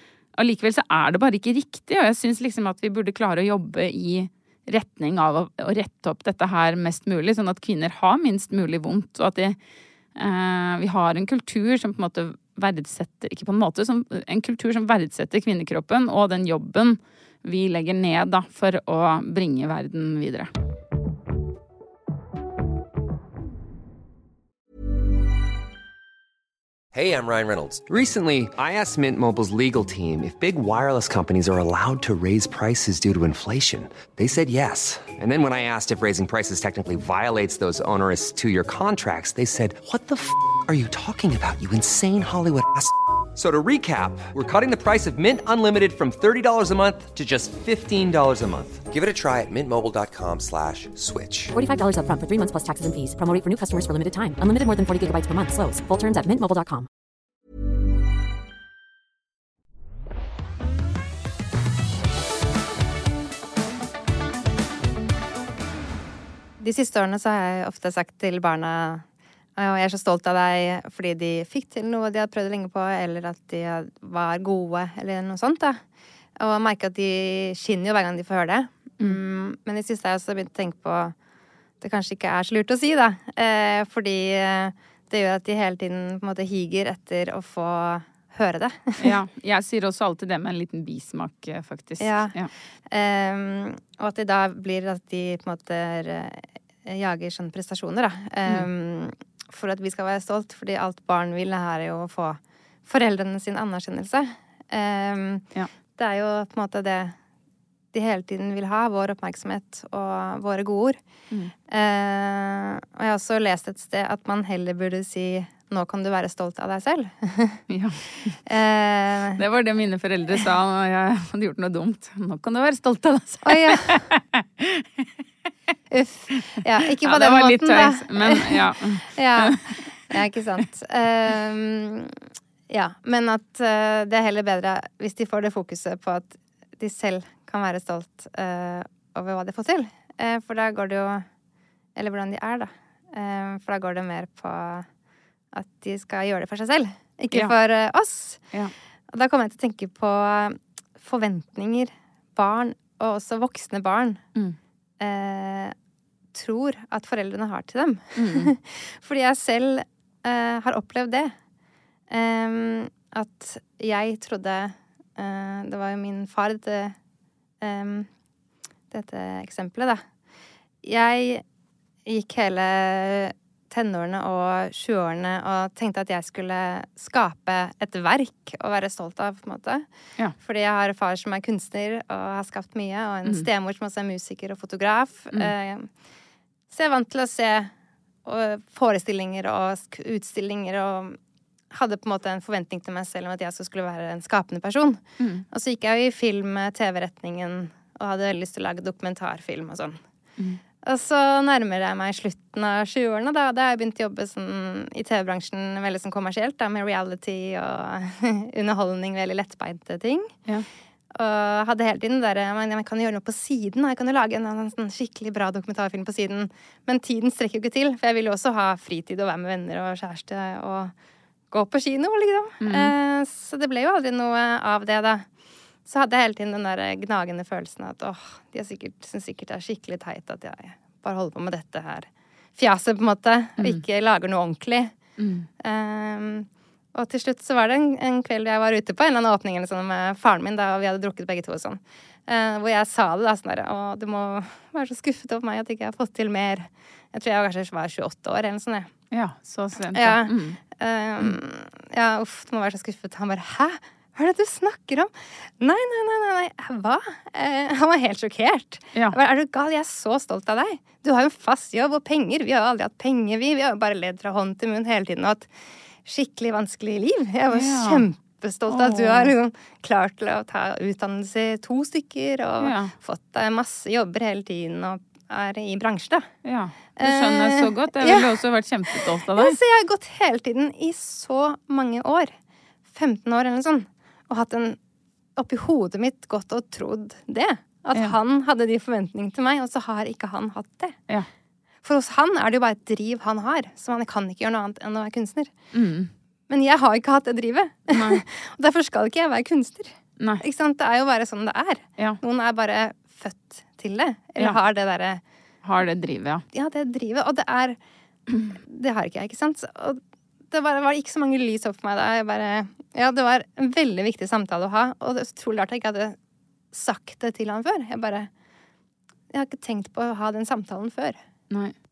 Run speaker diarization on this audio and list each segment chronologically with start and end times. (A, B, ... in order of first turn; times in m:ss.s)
0:00.4-0:09.6 A
0:10.2-0:20.5 A
0:26.9-0:51.5 B
0:51.5-0:56.9 C
1:06.6-1:09.0 D
1:09.6-1:15.8 D
1:16.4-1:21.1 D
1:21.8-1:29.2 D
1:29.0-1:32.5 A
1:32.0-1:32.4 D
1:32.9-1:45.4 D
1:46.0-1:47.2 D
1:47.9-1:51.0 D
1:51.7-1:57.6 D
1:57.7-1:58.4 A
1:58.4-1:59.4 D
1:59.4-2:05.0 A
2:03.4-2:04.1 D
2:05.9-2:21.2 D
2:07.0-2:09.8 A
2:21.9-2:24.9 D
2:25.5-2:28.4 D
2:29.1-2:34.2 D
2:35.0-2:35.7 D
2:36.3-2:41.3 D
2:38.2-2:38.5 A
2:42.1-2:47.0 D
2:47.6-2:48.1 D
2:48.9-2:50.0 D
2:50.8-2:51.4 D
2:52.0-2:59.8 D
3:00.4-3:05.9 D
3:06.7-3:07.7 D
3:08.2-3:11.2 D
3:11.7-3:20.0 D
3:15.2-3:15.4 A
3:20.8-3:30.4 D
3:31.1-3:40.9 D
3:41.5-3:45.3 D
3:42.6-3:42.9 A
3:45.8-3:55.0 D
3:55.2-3:55.5 A
3:55.6-4:08.9 D
4:09.1-4:10.6 A
4:09.9-4:25.5 D
4:26.0-4:36.3 D
4:27.5-4:28.0 A
4:28.7-4:29.3 A
4:32.6-4:32.9 A
4:36.4-4:39.6 A
4:37.0-4:38.3 D
4:38.9-4:42.3 D
4:42.9-4:44.8 D
4:45.4-4:51.0 D
4:51.8-4:55.5 D
4:55.7-4:56.1 A
4:56.5-5:05.2 D
4:57.9-4:58.2 A
5:05.6-5:06.4 A
5:06.5-5:07.8 D
5:08.5-5:16.2 D
5:16.7-5:18.3 D
5:19.3-5:21.2 D